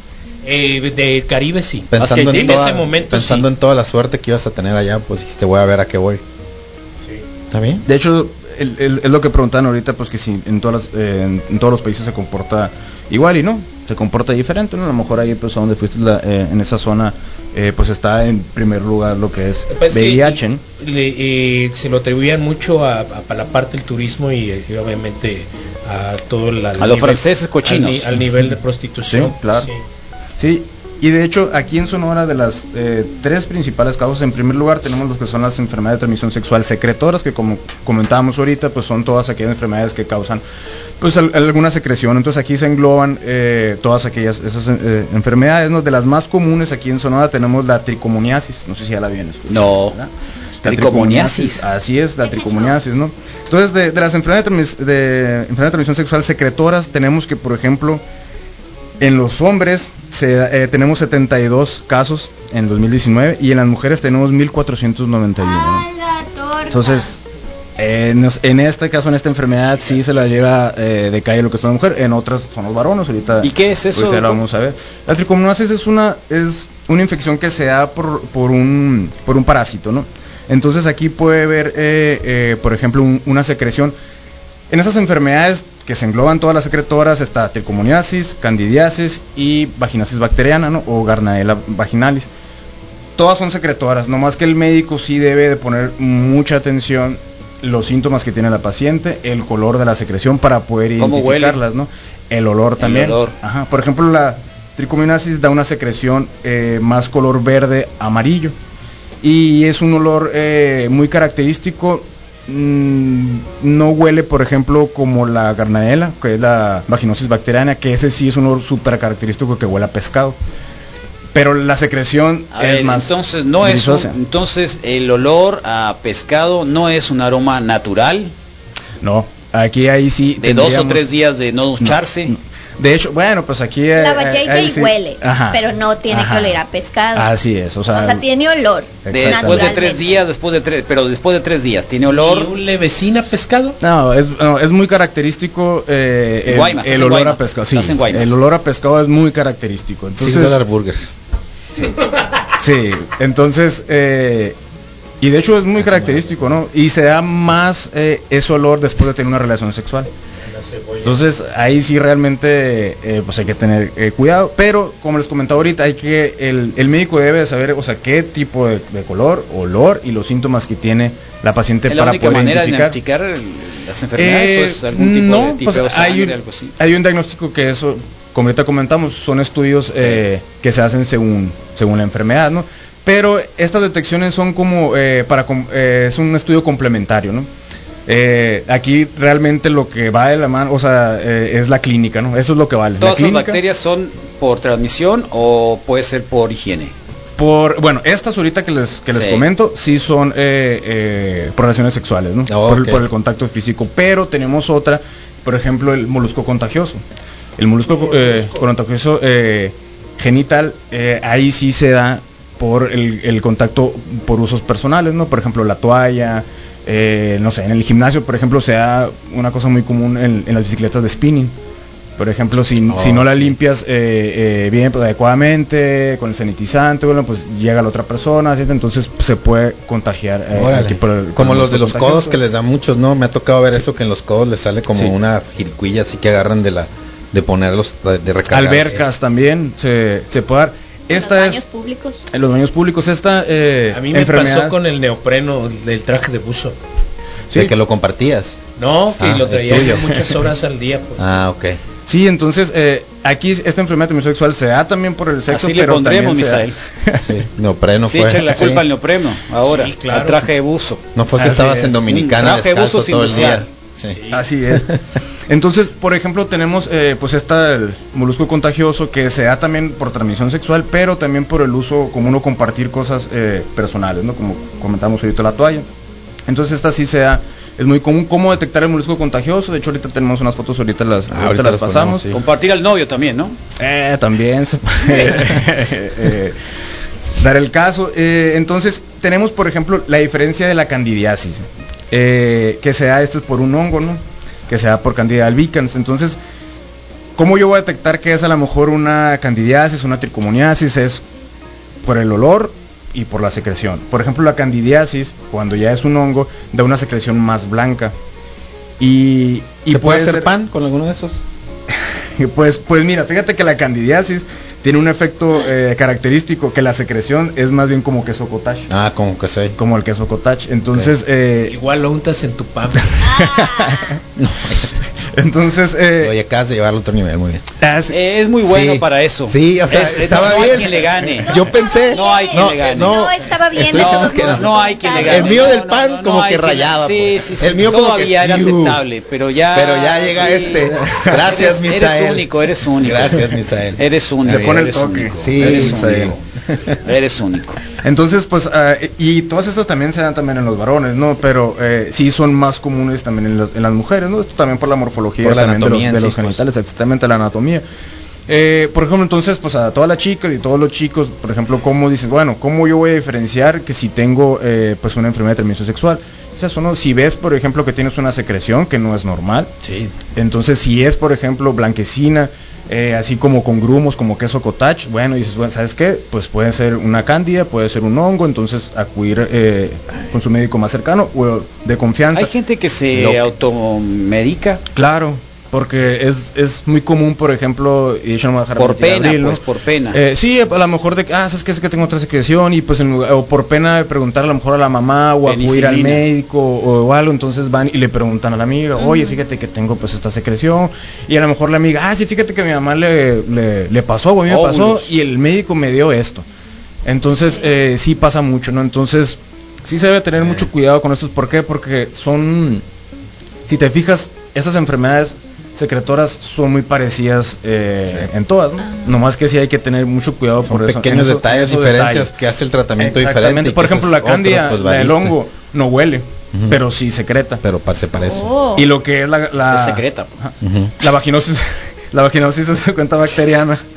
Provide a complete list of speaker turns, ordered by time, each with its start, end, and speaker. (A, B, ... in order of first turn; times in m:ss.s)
0:00.4-0:03.4 A
0:01.9-0:06.2 B
0:02.0-0:02.6 C
0:07.5-0:07.8 B
0:07.8-0:20.6 D
0:19.7-0:29.8 A
0:26.8-0:28.1 C
0:29.1-0:29.7 D
0:30.4-0:40.4 D
0:41.0-0:50.1 D
0:49.5-0:50.0 C
0:50.6-0:58.0 D
0:50.6-0:51.6 C
0:52.2-0:52.8 E
0:59.0-1:05.9 D
1:05.4-1:07.1 E
1:06.7-1:07.2 D
1:07.8-1:23.9 D
1:13.4-1:14.4 C
1:24.7-1:32.3 D
1:33.2-1:48.5 D
1:41.0-1:41.6 C
1:42.8-1:43.3 C
1:49.2-2:00.4 D
2:01.3-2:04.2 D
2:02.5-2:08.3 C
2:09.0-2:11.1 D
2:10.4-2:12.3 C
2:11.8-2:16.6 D
2:13.9-2:17.3 E
2:17.1-2:18.2 D
2:17.9-2:20.2 E
2:19.0-2:19.8 D
2:19.1-2:22.5 C
2:22.0-2:23.8 A
2:23.8-2:30.6 D
2:26.5-2:28.4 C
2:30.2-2:31.0 B
2:32.1-2:32.3 A
2:32.6-2:34.5 D
2:35.2-2:40.1 D
2:35.8-2:36.6 B
2:40.4-2:41.2 A
2:41.0-2:53.0 D
2:51.9-2:56.7 C
2:54.2-3:07.5 D
3:08.1-3:13.6 D
3:13.0-3:16.9 C
3:17.4-3:27.0 D
3:19.1-3:19.4 C
3:22.5-3:23.0 B
3:27.6-3:41.5 D
3:27.9-3:28.6 A
3:42.2-3:52.4 D
3:42.9-3:43.6 B
3:50.5-3:59.0 B
3:58.5-4:01.6 D
4:01.1-4:02.2 E
4:02.3-4:04.8 D
4:03.9-4:06.7 A
4:07.5-4:08.6 B
4:08.8-4:11.4 A
4:09.2-4:10.0 B
4:11.2-4:11.8 B
4:12.0-4:17.4 D
4:15.5-4:16.7 C
4:17.2-4:18.8 B
4:18.1-4:21.0 C
4:19.6-4:20.5 A
4:21.2-4:24.2 B
4:21.4-4:22.0 D
4:22.1-4:23.6 C
4:24.1-4:24.4 A
4:24.3-4:24.9 D
4:24.7-4:25.0 B
4:25.5-4:35.8 D
4:36.5-4:42.2 D
4:41.3-4:42.4 B
4:42.3-4:43.6 C
4:43.8-4:46.6 D
4:47.4-4:56.4 D
4:57.4-5:01.2 D
5:02.0-5:08.1 D
5:09.0-5:10.5 D
5:09.9-5:11.4 B
5:12.4-5:18.9 D
5:18.9-5:19.8 B
5:19.8-5:21.8 D
5:21.7-5:23.4 A
5:23.2-5:24.2 D
5:23.4-5:24.0 E
5:24.4-5:24.9 B
5:25.3-5:26.3 D
5:26.2-5:27.6 B
5:27.8-5:28.2 D
5:28.1-5:46.4 C
5:28.6-5:39.0 B
5:31.9-5:35.8 E
5:39.7-5:44.8 B
5:41.0-5:41.4 D
5:44.4-5:46.3 D
5:45.4-5:46.9 B
5:47.0-5:47.8 C
5:48.0-5:57.8 D
5:55.4-5:56.6 B
5:58.5-6:09.7 D
6:09.8-6:10.1 B
6:10.4-6:22.5 D
6:22.3-6:24.8 C
6:23.1-6:23.5 B
6:24.9-6:29.6 D
6:28.8-6:30.2 C
6:30.1-6:46.4 D
6:35.4-6:36.2 C
6:39.0-6:39.4 E
6:44.5-6:45.1 C
6:47.0-6:52.8 D
6:50.4-6:50.7 B
6:53.7-7:02.3 D
6:58.8-6:59.2 E
7:00.6-7:05.3 B
7:03.0-7:07.6 D
7:06.5-7:06.8 B
7:07.6-7:08.5 B
7:08.3-7:08.8 E
7:08.7-7:13.8 D
7:09.7-7:10.3 C
7:10.6-7:10.9 B